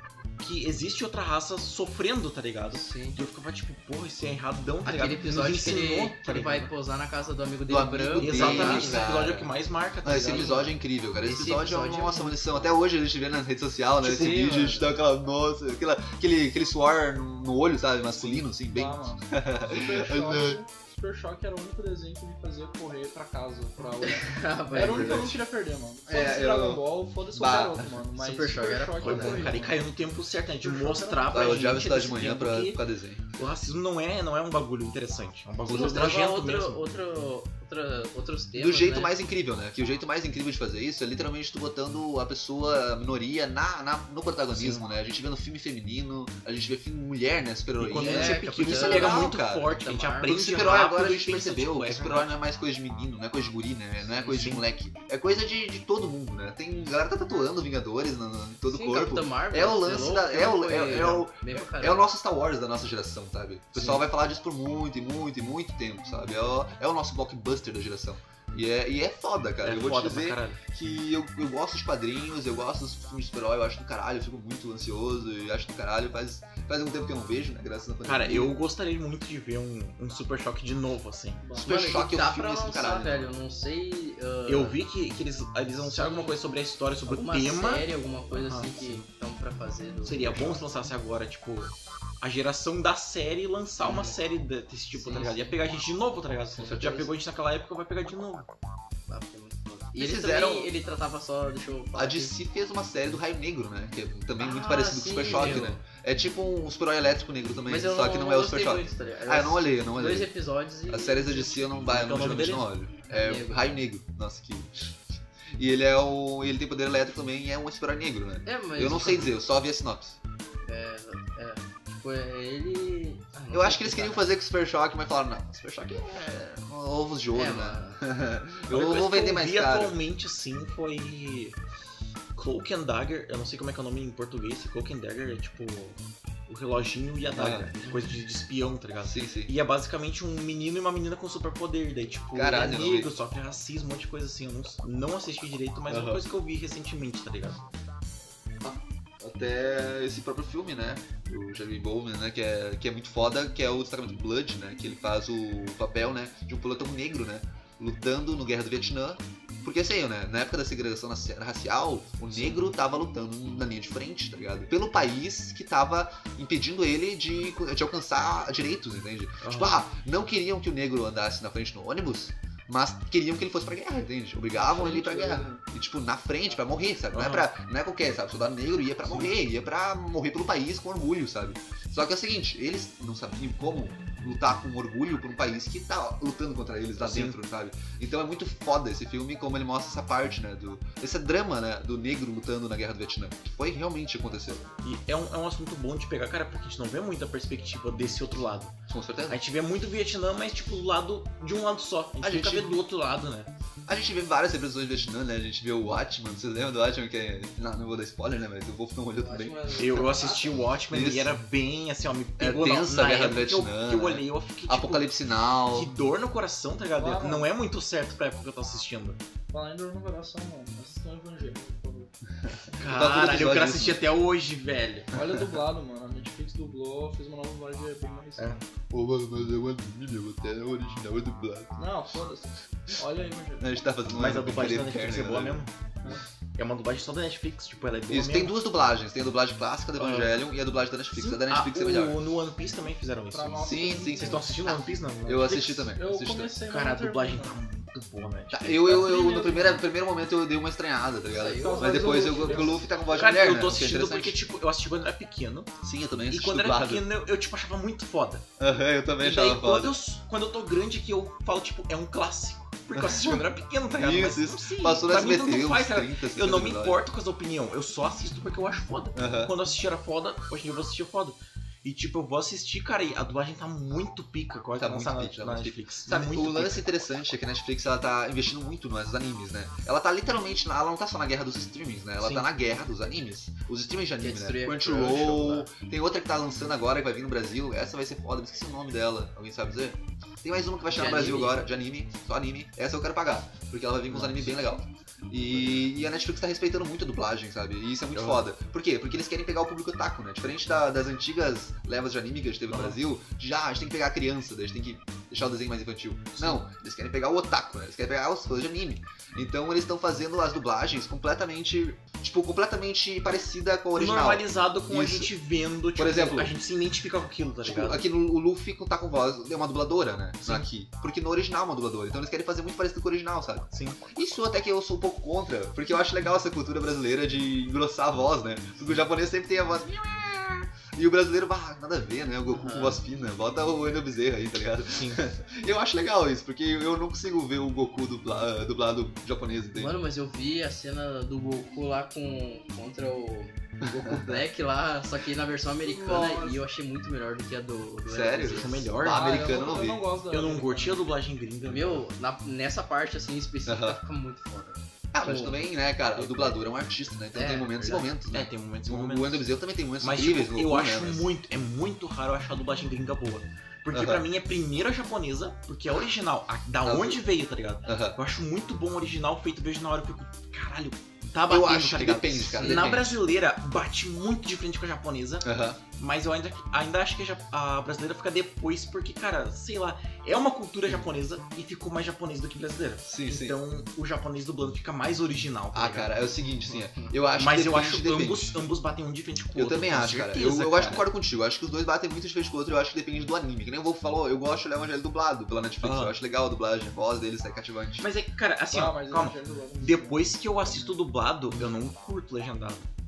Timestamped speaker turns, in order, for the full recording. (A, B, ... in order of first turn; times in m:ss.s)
0:00.4-0:06.7 A
0:02.7-0:03.2 B
0:04.8-0:09.1 B
0:07.7-0:09.5 C
0:08.2-0:10.6 A
0:10.0-0:20.6 C
0:10.2-0:12.7 B
0:14.0-0:14.9 B
0:18.6-0:29.8 D
0:24.0-0:25.3 B
0:24.8-0:25.4 C
0:26.1-0:28.0 C
0:28.2-0:29.7 B
0:29.0-0:32.8 A
0:30.6-0:31.6 D
0:31.3-0:33.2 C
0:33.4-0:36.8 A
0:35.7-0:36.1 C
0:35.7-0:39.2 B
0:38.6-0:49.7 C
0:44.5-0:44.8 A
0:47.8-0:52.3 A
0:48.0-0:50.4 B
0:50.3-1:18.6 C
0:54.3-0:54.6 A
0:58.7-1:02.1 B
1:00.9-1:01.3 A
1:03.8-1:04.0 A
1:09.6-1:10.6 A
1:18.0-1:21.5 A
1:21.4-1:21.8 D
1:21.6-1:24.8 B
1:21.6-1:23.3 C
1:24.5-1:29.1 A
1:25.8-1:26.4 B
1:27.1-1:30.6 B
1:30.0-1:38.5 A
1:33.8-1:34.2 B
1:35.0-1:35.6 B
1:36.5-1:37.1 B
1:39.1-1:42.3 B
1:40.0-1:40.7 C
1:42.0-1:50.3 C
1:44.4-1:45.8 B
1:45.3-1:45.7 A
1:47.7-1:51.9 B
1:50.9-1:54.9 C
1:51.8-1:52.7 A
1:53.1-1:53.8 B
1:55.6-2:00.2 C
1:58.4-1:59.3 B
2:00.6-2:04.3 B
2:03.5-2:10.0 C
2:07.3-2:08.0 B
2:08.7-2:11.6 A
2:12.4-2:27.7 A
2:17.3-2:17.7 C
2:17.8-2:18.1 B
2:19.0-2:19.5 C
2:22.3-2:23.1 C
2:25.9-2:26.2 C
2:28.6-3:14.7 C
2:42.3-2:42.7 A
2:49.4-2:49.8 A
2:54.5-2:55.6 D
2:57.1-2:57.5 A
3:07.0-3:07.4 A
3:14.8-3:18.7 A
3:18.9-3:19.4 C
3:19.3-3:23.5 A
3:22.2-3:22.8 C
3:23.9-3:29.8 C
3:29.2-3:30.6 B
3:29.8-3:35.1 A
3:30.9-3:31.3 C
3:32.4-3:35.9 C
3:35.7-3:39.2 A
3:37.0-3:37.5 D
3:39.5-3:42.1 D
3:42.4-3:44.0 C
3:42.8-3:45.1 A
3:45.1-3:48.6 D
3:45.3-3:45.6 C
3:48.9-3:51.8 C
3:51.8-3:53.7 D
3:53.6-3:55.6 C
3:54.1-3:55.7 A
3:56.6-3:58.6 A
3:58.1-4:02.2 C
4:00.0-4:00.4 A
4:01.1-4:05.8 A
4:03.3-4:04.7 D
4:03.6-4:06.5 C
4:05.5-4:07.6 D
4:06.7-4:09.8 A
4:08.5-4:14.4 C
4:08.9-4:09.7 D
4:11.3-4:12.8 B
4:11.6-4:12.9 D
4:13.1-4:15.7 A
4:15.8-4:17.1 C
4:16.3-4:18.5 A
4:18.6-4:20.0 C
4:19.2-4:36.9 A
4:22.9-4:23.4 C
4:24.0-4:27.0 C
4:29.2-4:29.5 C
4:34.8-5:15.3 C
4:42.2-4:42.5 A
4:44.2-4:45.7 B
4:51.0-4:51.6 B
4:54.1-4:54.6 A
4:55.5-4:55.9 A
4:58.1-4:58.5 A
5:02.7-5:03.0 A
5:06.3-5:06.6 A
5:14.0-5:18.0 A
5:16.0-5:16.5 C
5:17.6-5:39.9 C
5:23.7-5:24.0 A
5:32.5-5:33.0 B
5:34.9-5:35.2 A
5:39.7-5:49.0 B
5:43.8-5:44.4 C
5:45.8-5:46.6 D
5:48.1-5:50.1 C
5:48.5-5:52.1 A
5:49.0-5:51.0 D
5:51.7-5:55.6 B
5:53.7-5:54.0 C
5:55.1-6:01.3 C
5:56.2-5:56.6 A
5:57.3-5:58.1 B
5:58.3-5:59.5 A
6:00.0-6:26.1 A
6:03.9-6:04.3 C
6:06.8-6:07.2 C
6:07.9-6:08.2 C
6:11.5-6:13.2 C
6:12.5-6:12.9 B
6:15.4-6:15.8 C
6:23.1-6:23.6 C
6:25.7-6:28.6 C
6:27.4-6:31.0 A
6:29.5-6:38.1 C
6:35.8-6:36.2 A
6:38.0-6:42.9 A
6:38.7-6:41.0 D